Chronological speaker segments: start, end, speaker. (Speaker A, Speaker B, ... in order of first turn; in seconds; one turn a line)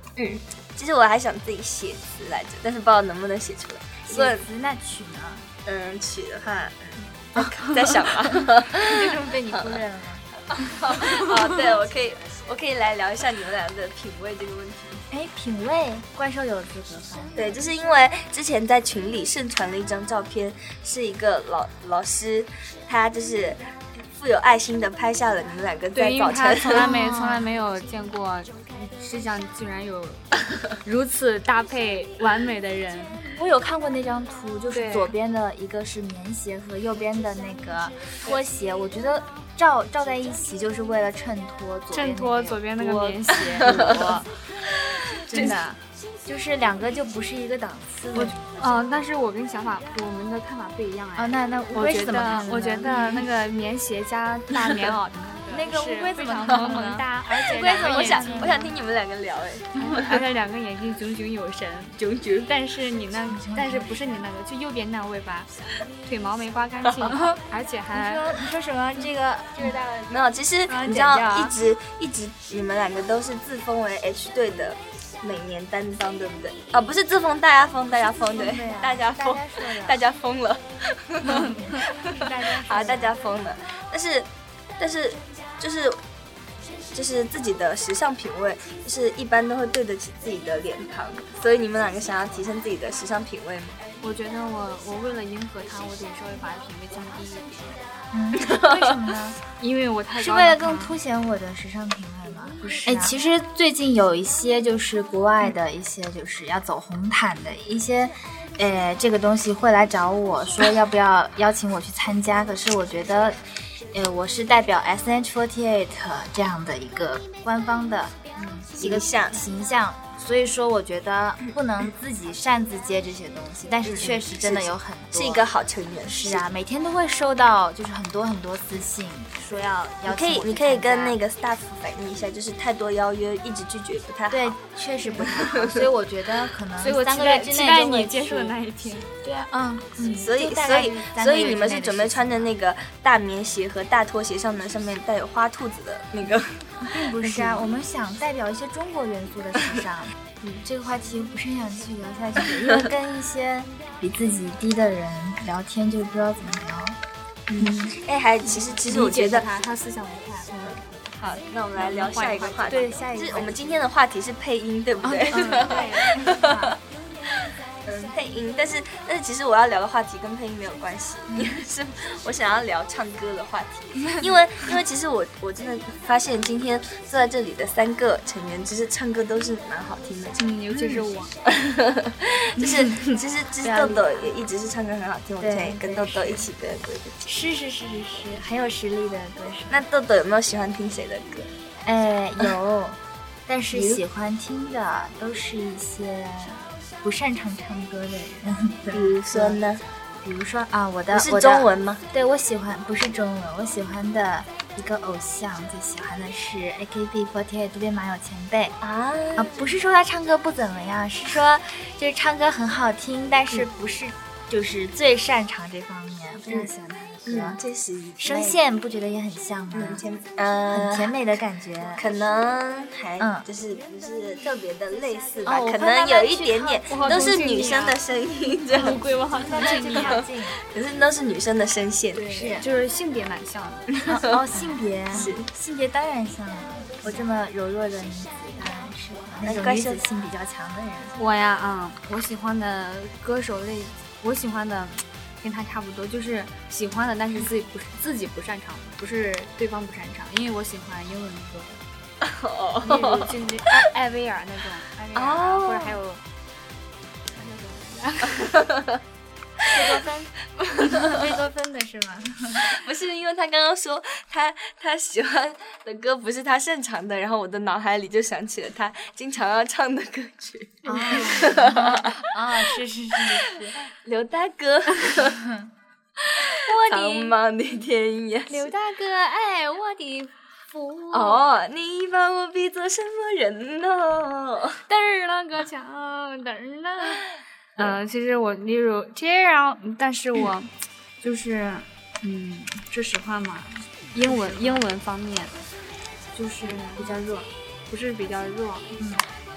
Speaker A: 0.2-4.4
Speaker B: 4.1-5.5
Speaker A: 5.6-9.8
Speaker B: 7.3-11.7
Speaker A: 10.5-15.0
Speaker B: 15.1-17.5
Speaker A: 17.4-26.9
Speaker C: 25.9-30.2
Speaker B: 26.7-27.5
Speaker C: 30.8-33.2
Speaker B: 33.3-44.3
Speaker C: 34.7-35.1
Speaker C: 41.9-44.2
Speaker A: 43.6-44.0
Speaker A: 45.3-45.6
Speaker B: 45.3-49.0
Speaker C: 48.1-58.5
Speaker B: 51.2-53.2
Speaker B: 55.5-58.7
Speaker A: 57.4-60.2
Speaker C: 59.8-65.5
Speaker A: 62.0-62.5
Speaker B: 63.2-64.2
Speaker C: 66.0-68.2
Speaker A: 66.8-67.1
Speaker B: 67.1-67.3
Speaker B: 67.9-70.1
Speaker A: 70.1-86.0
Speaker B: 70.7-71.5
Speaker B: 78.3-80.0
Speaker B: 81.2-83.1
Speaker A: 86.9-93.8
Speaker C: 94.0-97.8
Speaker B: 98.1-99.4
Speaker A: 98.4-98.9
Speaker C: 99.6-101.0
Speaker B: 100.2-113.4
Speaker C: 102.6-103.1
Speaker B: 113.9-125.4
Speaker A: 118.8-119.4
Speaker A: 123.8-126.4
Speaker B: 126.1-131.2
Speaker A: 130.1-134.6
Speaker B: 134.3-138.5
Speaker A: 135.1-135.9
Speaker C: 136.8-139.1
Speaker B: 139.2-142.5
Speaker A: 140.2-146.5
Speaker B: 146.8-157.0
Speaker C: 147.2-147.6
Speaker A: 157.5-159.5
Speaker B: 157.6-157.9
Speaker C: 158.7-161.1
Speaker A: 161.2-166.8
Speaker C: 161.8-163.0
Speaker B: 162.7-163.8
Speaker B: 165.0-166.8
Speaker C: 165.3-166.3
Speaker A: 167.8-180.4
Speaker C: 180.3-181.3
Speaker B: 180.7-181.0
Speaker A: 181.5-187.2
Speaker B: 182.6-183.1
Speaker B: 183.6-184.2
Speaker B: 185.4-186.4
Speaker B: 187.2-189.8
Speaker A: 189.7-191.5
Speaker B: 191.8-199.6
Speaker A: 193.7-194.0
Speaker A: 198.9-199.8
Speaker B: 200.2-208.8
Speaker A: 201.1-202.0
Speaker A: 208.8-209.5
Speaker B: 209.3-217.6
Speaker A: 217.2-218.6
Speaker B: 218.2-220.0
Speaker A: 219.7-221.3
Speaker B: 220.7-222.1
Speaker A: 221.9-229.0
Speaker B: 223.2-223.4
Speaker B: 225.4-227.4
Speaker C: 226.9-228.0
Speaker C: 228.7-230.3
Speaker B: 229.3-230.6
Speaker A: 229.9-232.4
Speaker C: 232.1-234.1
Speaker B: 232.3-232.6
Speaker B: 234.1-241.2
Speaker A: 235.1-235.5
Speaker A: 239.4-240.0
Speaker C: 241.2-251.8
Speaker A: 252.2-253.4
Speaker C: 252.8-256.2
Speaker A: 255.1-256.0
Speaker C: 257.3-258.6
Speaker A: 258.4-259.0
Speaker B: 259.7-260.3
Speaker A: 260.7-261.1
Speaker B: 260.8-262.7
Speaker A: 262.6-272.2
Speaker C: 270.8-271.5
Speaker B: 270.9-273.8
Speaker A: 273.9-275.4
Speaker B: 275.2-275.7
Speaker A: 276.4-278.7
Speaker C: 276.6-277.3
Speaker C: 278.5-281.4
Speaker A: 281.1-284.8
Speaker C: 284.9-290.7
Speaker C: 291.2-295.5
Speaker B: 294.2-294.8
Speaker B: 296.4-297.5
Speaker C: 296.6-297.1
Speaker C: 297.9-298.9
Speaker B: 299.0-299.2